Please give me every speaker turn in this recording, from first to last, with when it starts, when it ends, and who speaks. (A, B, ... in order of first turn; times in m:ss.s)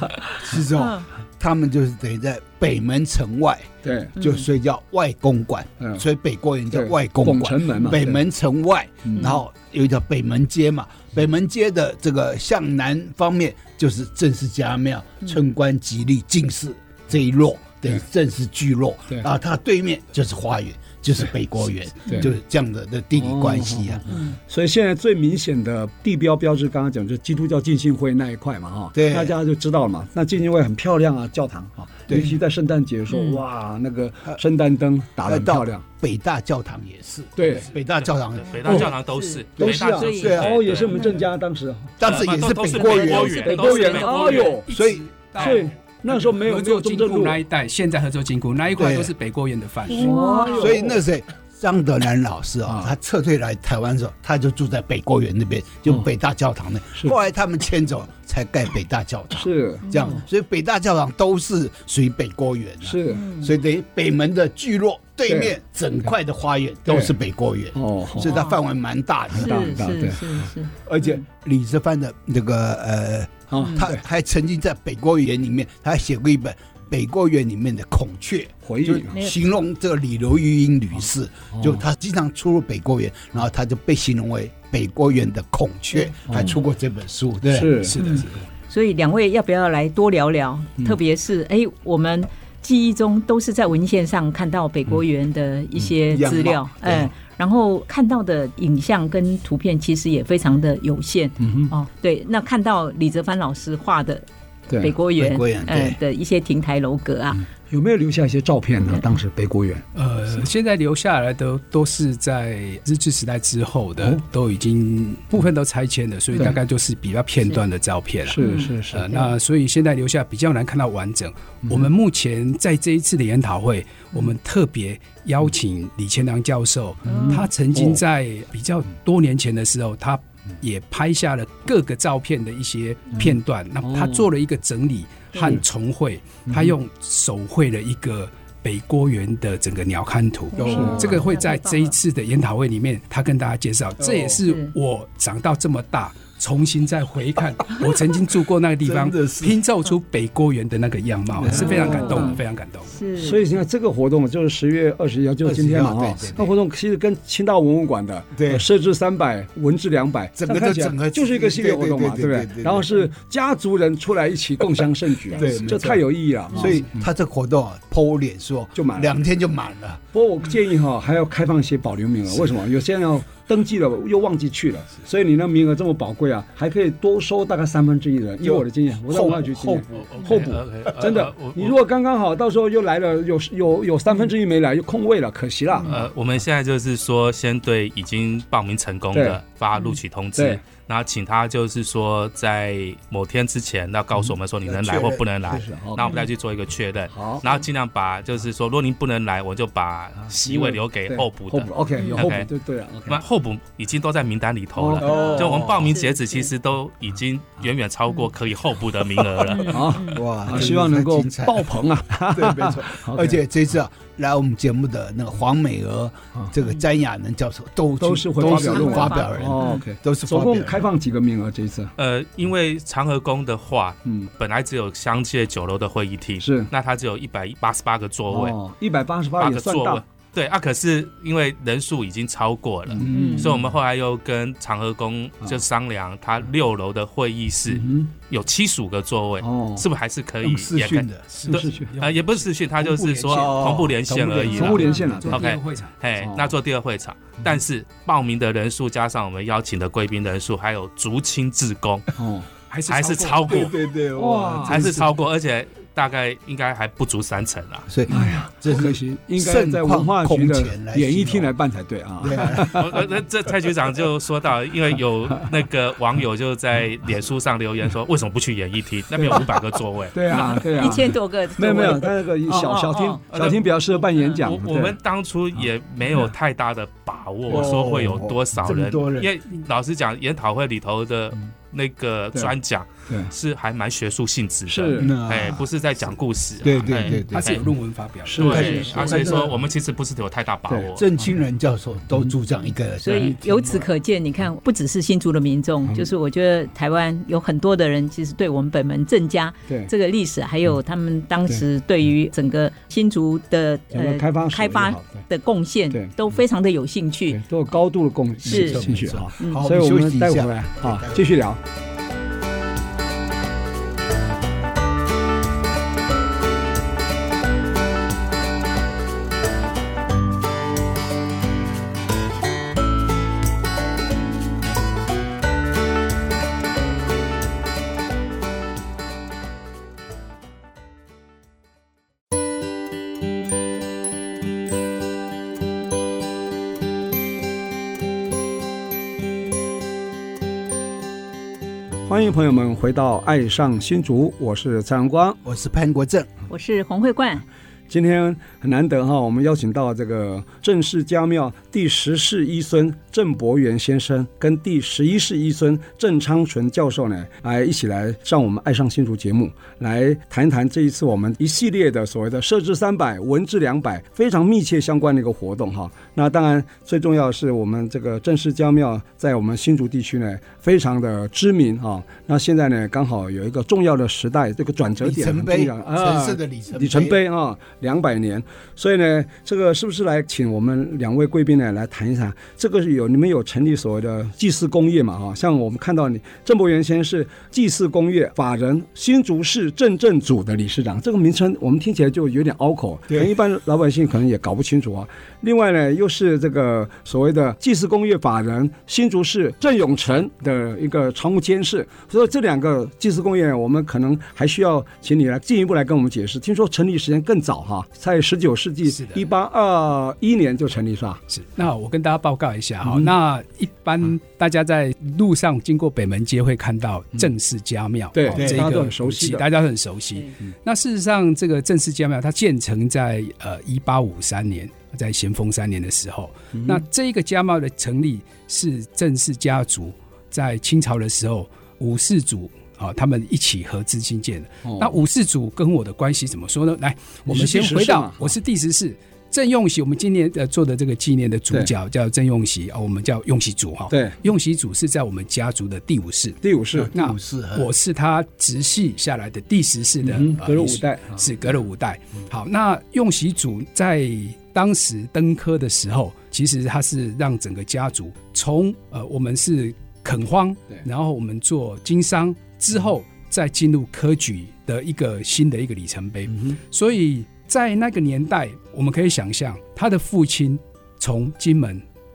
0:00.4-0:24.0 A
0:00.8-0:01.1 B
0:03.8-0:04.1 C
0:04.2-0:04.4 B
0:05.8-0:06.0 C
0:06.7-0:08.2 C
0:09.1-0:09.4 C
0:22.1-0:22.3 C
0:23.2-0:35.8 C
0:24.1-0:24.4 B
0:28.9-0:29.4 A
0:32.1-0:32.4 A
0:33.1-0:33.4 B
0:35.2-0:38.9 A
0:37.4-0:37.7 C
0:38.0-0:41.0 D
0:38.6-0:41.3 B
0:38.6-0:38.9 C
0:39.6-0:40.7 A
0:39.7-0:42.0 C
0:42.0-0:43.5 A
0:42.0-0:44.6 D
0:42.7-0:44.5 B
0:43.3-0:44.7 C
0:44.6-0:50.1 E
0:44.7-0:45.5 A
0:45.3-0:47.4 C
0:48.8-0:49.1 A
0:49.9-0:51.0 C
0:49.9-0:50.8 B
0:50.5-1:09.7 A
0:52.6-0:52.9 C
0:59.4-0:59.9 C
0:59.8-1:00.2 B
1:02.8-1:03.2 C
1:03.1-1:03.5 B
1:05.2-1:05.5 C
1:06.9-1:07.2 C
1:07.8-1:08.4 C
1:08.2-1:08.6 B
1:09.3-1:11.2 C
1:09.3-1:11.2 B
1:11.2-1:27.9 A
1:13.5-1:14.0 C
1:13.6-1:13.8 B
1:18.6-1:19.2 C
1:21.5-1:21.8 C
1:26.3-1:26.6 C
1:27.5-1:28.0 C
1:27.8-1:28.4 E
1:28.0-1:44.2 B
1:36.1-1:37.1 A
1:41.4-1:41.7 C
1:44.7-1:45.0 C
1:44.8-1:47.4 B
1:45.2-1:46.0 A
1:47.6-1:49.8 C
1:50.0-2:32.9 E
1:58.3-1:59.2 C
1:58.4-1:58.7 B
2:07.0-2:07.4 B
2:07.1-2:08.0 C
2:13.8-2:14.2 C
2:15.4-2:15.6 C
2:16.5-2:16.7 C
2:20.6-2:21.9 B
2:20.6-2:21.2 C
2:24.0-2:24.4 C
2:24.4-2:24.7 B
2:28.8-2:29.6 A
2:31.4-2:32.3 C
2:31.5-2:32.4 B
2:32.9-2:33.4 B
2:33.2-2:47.1 C
2:35.4-2:36.6 A
2:38.4-2:38.6 A
2:40.4-2:42.9 A
2:45.3-2:45.6 B
2:45.3-2:50.0 A
2:48.8-2:49.1 C
2:50.1-3:06.1 C
2:58.4-3:01.1 A
3:00.1-3:01.8 D
3:05.9-3:22.5 D
3:09.1-3:09.4 C
3:10.4-3:10.6 C
3:14.6-3:15.7 A
3:15.6-3:16.1 C
3:16.0-3:16.3 B
3:17.1-3:17.4 C
3:20.3-3:23.2 C
3:22.0-3:22.3 B
3:23.1-3:30.0 D
3:24.8-3:25.7 C
3:25.0-3:26.5 B
3:25.0-3:25.9 A
3:29.5-3:30.2 B
3:29.6-3:33.4 C
3:30.4-3:31.8 A
3:32.3-3:40.9 A
3:38.0-3:41.9 C
3:38.4-3:39.8 B
3:42.0-3:48.6 D
3:44.0-3:44.3 C
3:46.4-3:46.7 C
3:48.3-3:50.0 C
3:49.4-4:12.1 D
3:52.9-3:53.3 C
3:53.0-3:53.6 A
3:53.1-3:53.5 B
3:57.7-3:58.1 C
3:59.4-3:59.9 C
4:00.4-4:01.7 A
4:01.4-4:03.6 E
4:01.5-4:01.9 C
4:03.3-4:05.2 A
4:04.5-4:05.4 C
4:04.6-4:06.0 E
4:06.2-4:06.5 C
4:12.2-4:12.5 C
4:12.7-4:13.7 E
4:12.9-4:13.8 D
4:13.5-4:15.1 A
4:14.1-4:15.0 C
4:14.6-4:17.9 D
4:17.9-4:21.5 A
4:18.1-4:23.0 C
4:22.2-4:23.0 A
4:22.7-4:30.6 D
4:29.1-4:29.5 C
4:30.1-4:35.0 C
4:30.3-4:33.2 B
4:33.3-4:33.7 D
4:34.2-4:34.4 B
4:34.4-4:47.6 D
4:37.5-4:38.3 C
4:37.5-4:39.3 A
4:43.1-4:43.3 C
4:44.7-4:45.2 C
4:45.0-4:45.7 A
4:46.6-4:47.6 A
4:47.3-4:49.0 E
4:48.3-4:49.0 C
4:48.4-4:51.0 D
4:48.4-4:49.6 A
4:48.5-4:49.2 B
4:51.0-4:53.9 A
4:53.0-5:07.4 B
5:03.9-5:05.2 C
5:07.3-5:11.6 C
5:08.4-5:11.3 A
5:08.4-5:08.8 B
5:42.1-5:45.4 C
5:45.4-5:46.3 A
5:46.5-5:47.4 B
5:47.9-6:51.2 C
6:15.0-6:17.2 A
6:48.9-6:49.2 E
6:51.3-7:26.4 E
6:58.1-6:59.5 C
6:58.4-6:58.8 A
7:06.5-7:06.8 C
7:14.6-7:15.0 C
7:17.3-7:18.3 C
7:23.9-7:24.2 C
7:26.4-7:26.9 C
7:26.7-7:27.7 A
7:26.9-7:51.8 E
7:30.0-7:31.3 C